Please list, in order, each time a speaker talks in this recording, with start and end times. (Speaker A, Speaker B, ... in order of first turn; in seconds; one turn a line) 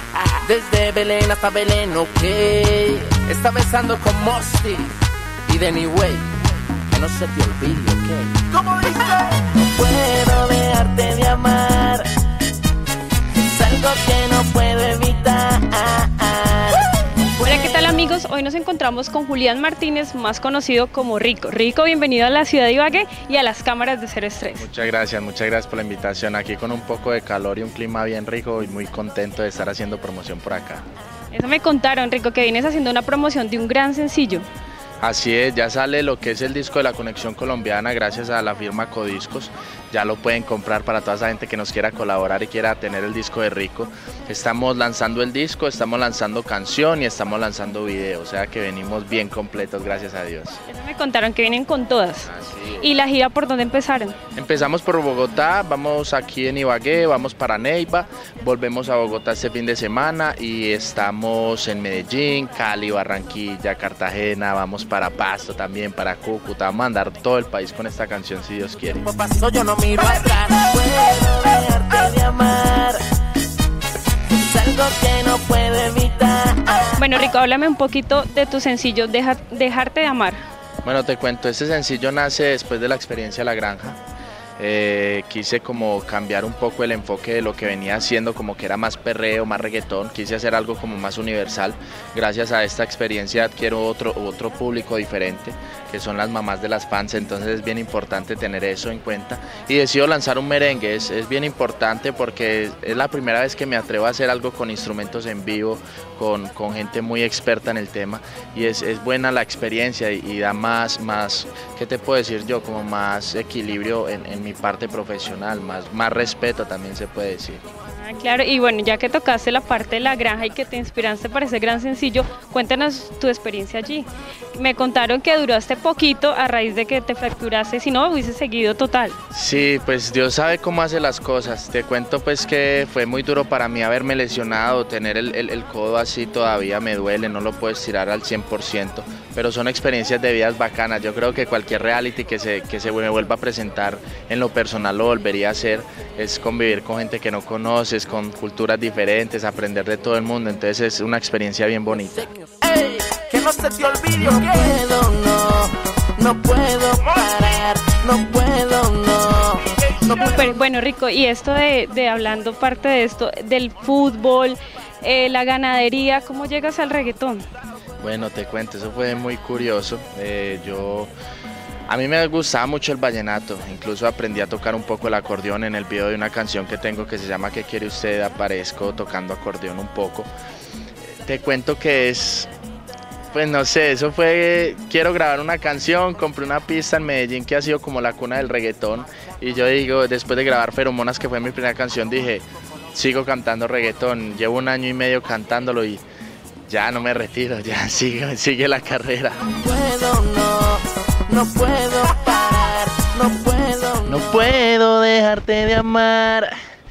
Speaker A: 0.4-6.3
Speaker A: 6.9-12.1
Speaker A: 13.4-16.9
Speaker B: 17.4-24.7
Speaker C: 24.6-30.8
Speaker B: 31.3-34.5
Speaker C: 35.0-50.6
Speaker B: 50.7-54.2
Speaker C: 52.3-52.9
Speaker C: 54.4-69.0
Speaker A: 68.9-73.0
Speaker A: 74.3-77.0
Speaker B: 77.0-80.4
Speaker C: 80.8-84.0
Speaker C: 84.6-117.6
Speaker B: 118.0-129.2
Speaker C: 129.3-152.3
Speaker A: 151.9-160.5
Speaker B: 160.1-167.5
Speaker C: 168.0-171.1
Speaker C: 171.9-180.3
Speaker C: 181.2-182.5
Speaker C: 183.3-196.0
Speaker C: 196.7-199.5
Speaker A: 199.6-204.3
Speaker C: 204.1-206.6